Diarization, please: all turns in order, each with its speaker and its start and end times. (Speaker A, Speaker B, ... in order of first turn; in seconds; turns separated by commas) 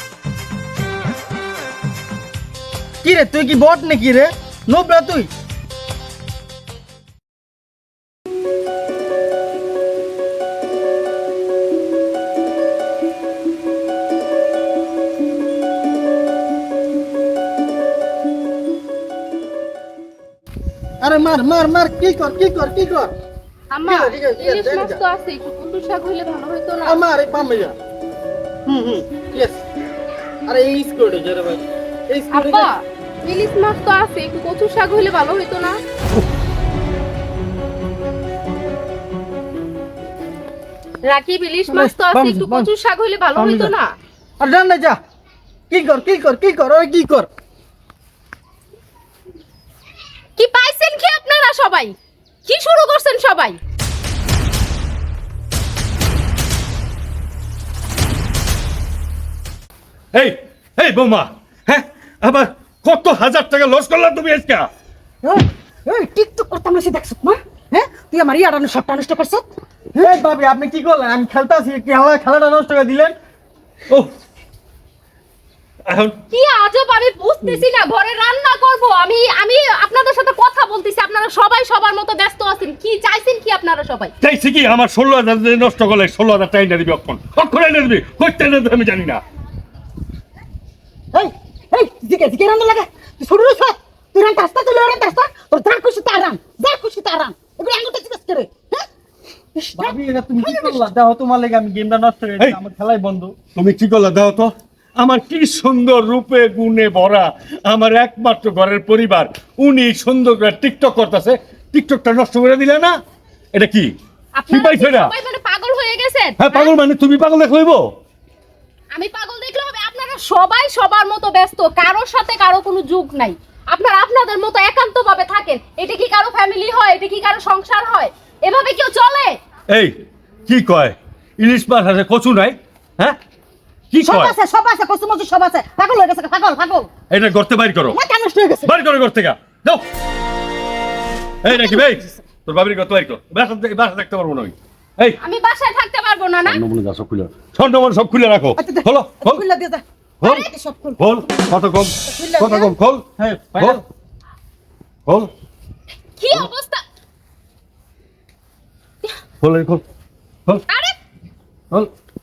Speaker A: 3.0-5.3, Speaker A: 21.0-23.1, Speaker B: 23.7-27.0, Speaker A: 23.9-25.0, Speaker A: 26.8-27.8, Speaker A: 28.6-29.6, Speaker A: 30.5-32.7, Speaker B: 32.3-35.8, Speaker B: 41.0-43.9, Speaker A: 41.7-42.7, Speaker A: 43.3-43.7, Speaker A: 44.4-45.0, Speaker A: 45.7-47.3, Speaker B: 50.4-51.9, Speaker B: 52.5-53.6, Speaker C: 60.1-64.7, Speaker D: 65.2-69.5, Speaker A: 70.0-73.1, Speaker C: 75.8-76.2, Speaker B: 76.3-84.1, Speaker C: 84.2-89.2, Speaker D: 91.1-98.8, Speaker D: 99.5-100.8, Speaker A: 99.8-103.3, Speaker C: 103.5-112.9, Speaker C: 113.5-113.9, Speaker B: 114.3-116.7, Speaker C: 114.5-115.1, Speaker C: 116.4-117.9, Speaker B: 118.9-129.4, Speaker C: 129.7-133.2, Speaker C: 133.9-134.3, Speaker D: 134.0-136.9, Speaker C: 137.1-138.0, Speaker D: 137.9-138.7, Speaker C: 138.6-139.8, Speaker C: 141.4-145.2, Speaker D: 141.5-142.1, Speaker B: 145.2-146.6, Speaker C: 146.4-149.4, Speaker D: 148.6-151.1, Speaker C: 150.2-153.0, Speaker B: 150.2-150.5, Speaker D: 152.1-152.7, Speaker A: 153.2-153.8, Speaker B: 156.2-156.8, Speaker C: 159.4-159.8, Speaker B: 160.7-160.9